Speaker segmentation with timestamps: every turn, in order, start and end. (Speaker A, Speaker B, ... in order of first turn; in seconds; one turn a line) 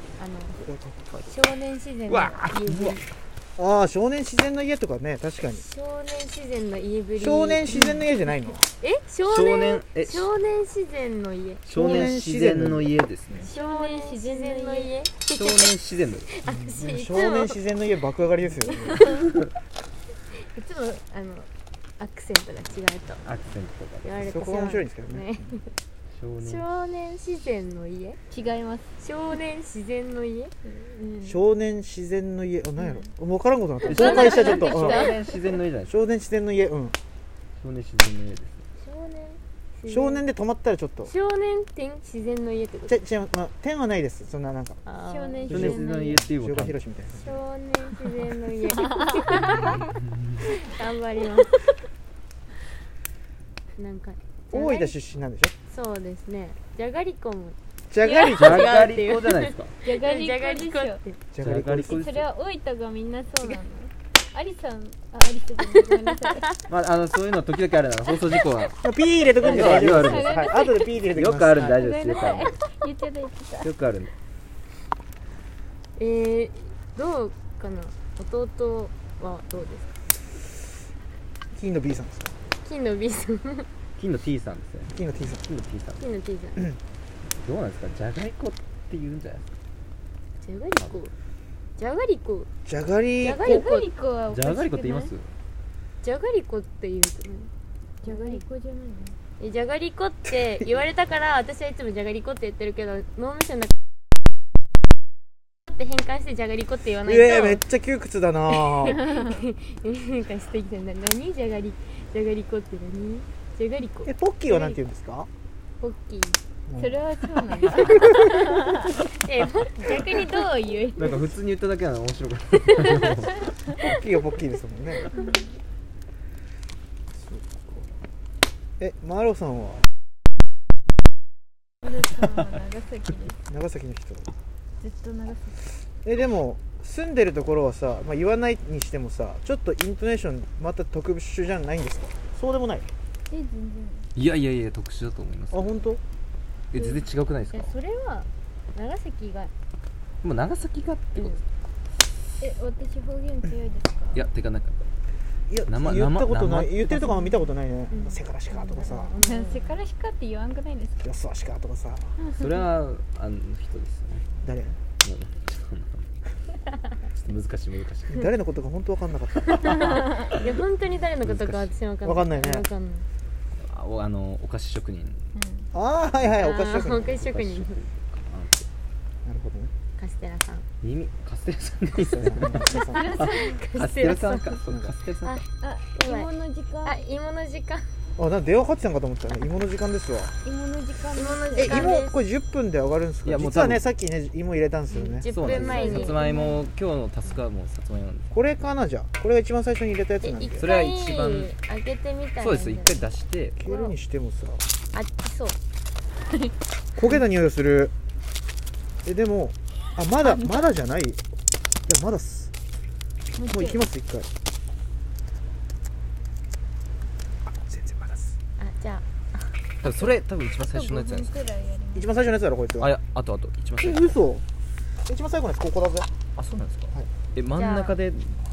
Speaker A: 0.2-0.6
Speaker B: 0.6-1.2
Speaker A: 1.3-3.0
Speaker C: 2.1-3.0
Speaker B: 3.6-5.7
Speaker A: 5.6-7.9
Speaker B: 7.2-8.7
Speaker D: 7.7-8.0
Speaker A: 8.8-12.0
Speaker C: 9.3-10.3
Speaker C: 11.7-13.5
Speaker B: 11.7-12.9
Speaker D: 13.3-14.9
Speaker A: 13.5-15.7
Speaker C: 15.3-16.3
Speaker A: 16.3-17.6
Speaker B: 16.4-19.1
Speaker A: 20.4-21.5
Speaker A: 22.0-23.2
Speaker C: 23.2-24.1
Speaker A: 24.0-25.7
Speaker B: 24.2-25.6
Speaker C: 26.1-26.6
Speaker A: 26.4-28.2
Speaker D: 28.3-28.9
Speaker A: 29.0-30.5
Speaker D: 30.6-31.4
Speaker B: 31.2-35.1
Speaker A: 33.9-35.2
Speaker C: 33.9-35.9
Speaker D: 34.1-35.4
Speaker B: 35.9-37.0
Speaker C: 37.6-38.6
Speaker A: 38.8-40.2
Speaker B: 39.9-41.1
Speaker A: 41.1-43.0
Speaker B: 42.9-44.8
Speaker A: 44.9-45.7
Speaker D: 45.0-46.2
Speaker C: 45.5-46.8
Speaker B: 45.5-47.4
Speaker A: 47.1-49.9
Speaker D: 48.9-49.8
Speaker C: 49.4-50.4
Speaker A: 50.4-51.6
Speaker A: 53.8-54.9
Speaker B: 54.5-55.5
Speaker A: 55.7-57.6
Speaker B: 57.9-58.8
Speaker D: 58.0-58.8
Speaker A: 58.1-61.2
Speaker C: 58.3-59.7
Speaker D: 59.8-61.0
Speaker B: 61.3-62.0
Speaker C: 61.4-62.3
Speaker D: 61.8-66.5
Speaker A: 65.8-66.6
Speaker C: 66.7-68.8
Speaker B: 68.8-71.8
Speaker C: 69.4-72.6
Speaker D: 69.4-71.0
Speaker D: 71.6-73.7
Speaker C: 73.6-74.1
Speaker A: 76.0-80.0
Speaker B: 81.5-82.4
Speaker A: 82.6-83.7
Speaker C: 84.0-86.0
Speaker B: 84.9-85.4
Speaker A: 86.0-86.7
Speaker C: 87.4-89.5
Speaker A: 90.4-91.1
Speaker A: 91.8-92.5
Speaker B: 92.7-93.7
Speaker A: 93.2-93.9
Speaker D: 93.4-95.1
Speaker C: 94.3-95.3
Speaker A: 96.0-97.5
Speaker D: 98.0-99.2
Speaker A: 98.1-98.4
Speaker A: 99.4-103.7
Speaker A: 105.7-107.6
Speaker B: 107.1-109.0
Speaker A: 108.7-114.8
Speaker B: 114.0-115.3
Speaker A: 115.8-116.4
Speaker B: 116.7-117.0
Speaker D: 116.8-118.9
Speaker A: 117.7-121.2
Speaker C: 121.0-123.5
Speaker A: 122.7-123.2
Speaker B: 123.8-125.1
Speaker D: 125.1-125.5
Speaker A: 125.1-125.4
Speaker B: 127.1-127.9
Speaker B: 128.8-129.9
Speaker D: 131.8-133.4
Speaker B: 133.5-134.3
Speaker D: 134.8-135.7
Speaker B: 136.1-142.9
Speaker D: 143.3-144.1
Speaker C: 144.2-145.8
Speaker B: 145.5-146.0
Speaker C: 146.7-147.7
Speaker A: 147.5-149.5
Speaker C: 150.2-151.4
Speaker D: 152.4-154.2
Speaker C: 154.1-154.8
Speaker B: 155.5-159.1
Speaker C: 155.7-157.2
Speaker A: 157.9-159.8
Speaker D: 159.2-161.1
Speaker B: 161.0-162.2
Speaker D: 162.2-162.6
Speaker C: 162.3-164.3
Speaker B: 164.4-164.8
Speaker C: 165.0-166.1
Speaker C: 167.1-168.3
Speaker B: 168.1-170.1
Speaker A: 169.6-173.1
Speaker D: 169.8-170.3
Speaker C: 171.2-171.7
Speaker B: 172.1-172.7
Speaker C: 173.6-175.3
Speaker D: 175.3-175.7
Speaker B: 175.7-177.2
Speaker A: 176.4-177.8
Speaker C: 177.0-178.7
Speaker B: 179.2-179.7
Speaker A: 180.0-180.7
Speaker C: 180.8-185.4
Speaker B: 181.9-183.2
Speaker D: 182.7-183.6
Speaker A: 183.0-184.6
Speaker A: 185.2-186.3
Speaker D: 185.6-187.0
Speaker A: 186.8-187.8
Speaker B: 188.2-190.3
Speaker D: 190.4-192.0
Speaker A: 191.2-192.2
Speaker B: 191.6-196.1
Speaker C: 193.2-193.8
Speaker A: 194.9-196.2
Speaker C: 195.3-198.3
Speaker D: 195.5-196.6
Speaker B: 198.3-200.7
Speaker A: 200.2-203.1
Speaker C: 200.6-201.5
Speaker C: 202.4-203.6
Speaker B: 203.6-204.6
Speaker A: 203.6-203.9
Speaker A: 204.9-205.6
Speaker B: 207.0-207.9
Speaker B: 209.0-211.2
Speaker B: 211.9-212.5
Speaker D: 213.3-213.8
Speaker B: 213.5-214.3
Speaker B: 217.5-218.4
Speaker A: 218.6-220.1
Speaker C: 219.8-221.3
Speaker D: 220.6-222.2
Speaker B: 221.9-222.9
Speaker C: 222.8-224.2
Speaker B: 223.8-224.4
Speaker B: 225.1-226.1
Speaker C: 226.4-228.4
Speaker A: 227.6-227.9